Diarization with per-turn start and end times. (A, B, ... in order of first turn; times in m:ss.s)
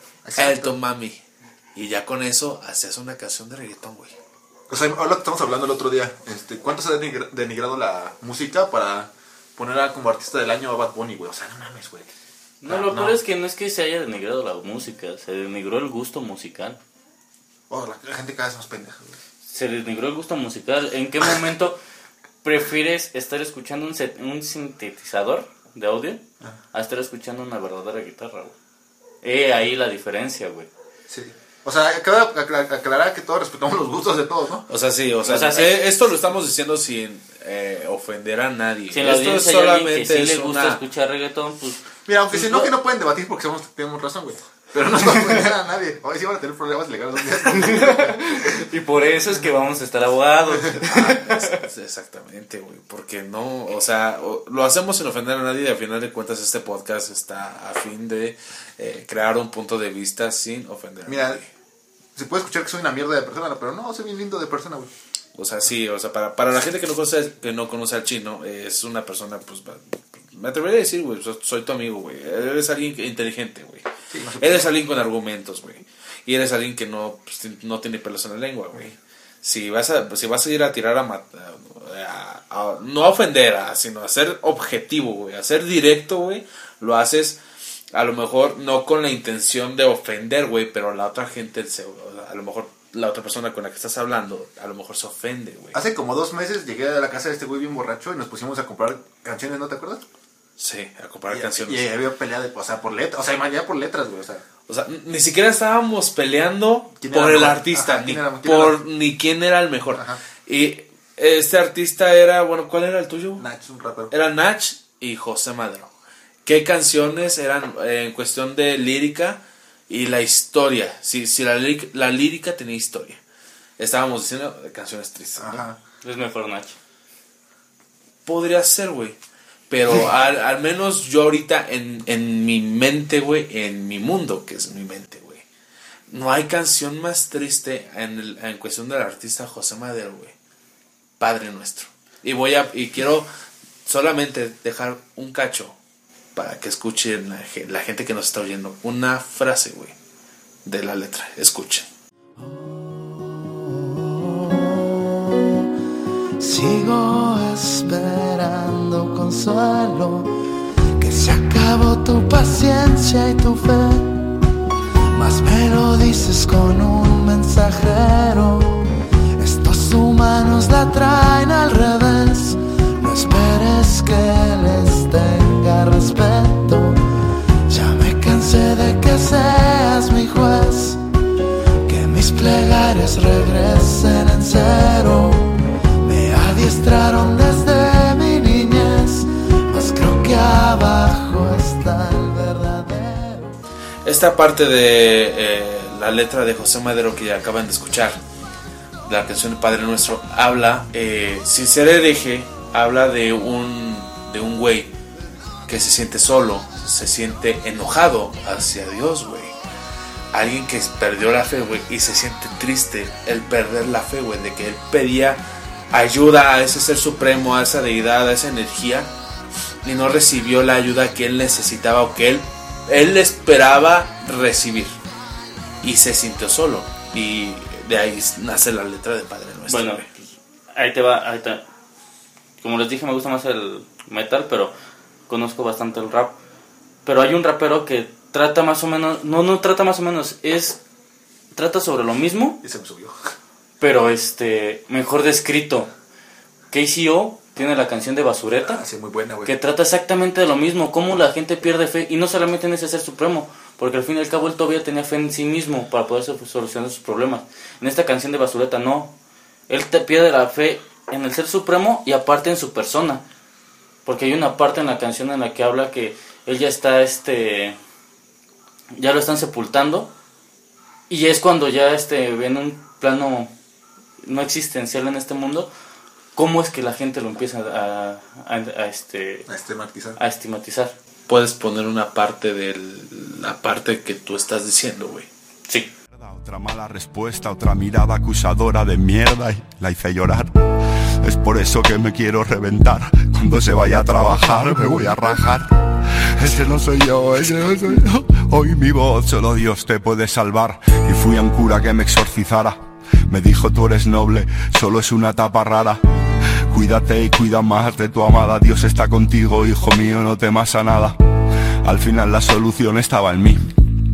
0:00.2-0:00.7 A
0:00.4-0:01.2 B
0:01.7-0:04.2 B
0:04.7-0:12.1 A
0:12.6-0:16.8 C
0:12.6-0:13.2 A
0:17.7-0:19.2 A
0:19.5-0:21.8 C
0:22.4-0:26.2 C
0:26.7-0:28.5 C
0:29.2-0:30.7 C
0:31.1-0:34.6 A
0:34.7-0:40.8 B
0:35.2-0:35.8 C
0:38.9-0:41.8 C
0:42.0-0:48.5 A
0:42.3-0:42.7 B
0:47.5-0:51.6 C
0:50.8-1:01.5 B
1:01.1-1:01.4 A
1:02.2-1:04.9 A
1:05.3-1:13.8 B
1:14.1-1:14.7 A
1:14.4-1:27.4 B
1:27.9-1:35.8 B
1:35.7-1:40.0 A
1:40.6-1:41.9 B
1:41.3-1:44.4 A
1:44.7-1:53.4 B
1:47.0-1:48.8 A
1:49.9-1:50.2 A
1:53.4-1:54.1 A
1:54.1-1:55.9 B
1:56.4-2:03.2 B
2:03.8-2:05.6 B
2:05.4-2:05.8 A
2:06.0-2:06.8 C
2:08.2-2:09.2 B
2:09.7-2:15.4 B
2:16.1-2:20.3 B
2:21.2-2:23.3 B
2:23.8-2:25.8 B
2:26.3-2:29.9 B
2:30.6-2:31.9 B
2:32.4-2:35.6 D
2:36.4-2:40.4 D
2:41.0-2:44.4 D
2:45.1-2:57.1 D
2:57.7-3:01.0 D
3:01.8-3:13.5 D
3:14.0-3:18.2 B
3:19.0-3:24.9 B
3:25.6-3:29.5 B
3:30.3-3:39.1 B
3:39.8-3:45.0 B
3:45.8-3:50.0 B
3:49.7-3:50.2 C
3:50.7-3:51.6 C
3:52.6-3:54.7 C
3:55.3-3:56.4 C
3:57.0-4:00.8 C
4:01.5-4:02.6 C
4:02.6-4:03.1 A
4:03.8-4:05.9 C
4:06.7-4:08.8 C
4:08.6-4:09.5 A
4:09.4-4:19.1 C
4:19.7-4:23.2 C
4:24.0-4:27.8 C
4:29.0-4:30.1 C
4:31.1-4:33.5 C
4:34.2-4:35.7 C
4:36.3-4:39.4 C
4:39.5-4:40.2 A
4:40.2-4:40.9 C
4:41.3-4:45.3 B
4:46.2-5:06.0 E
5:06.7-5:11.2 E
5:11.8-5:13.8 E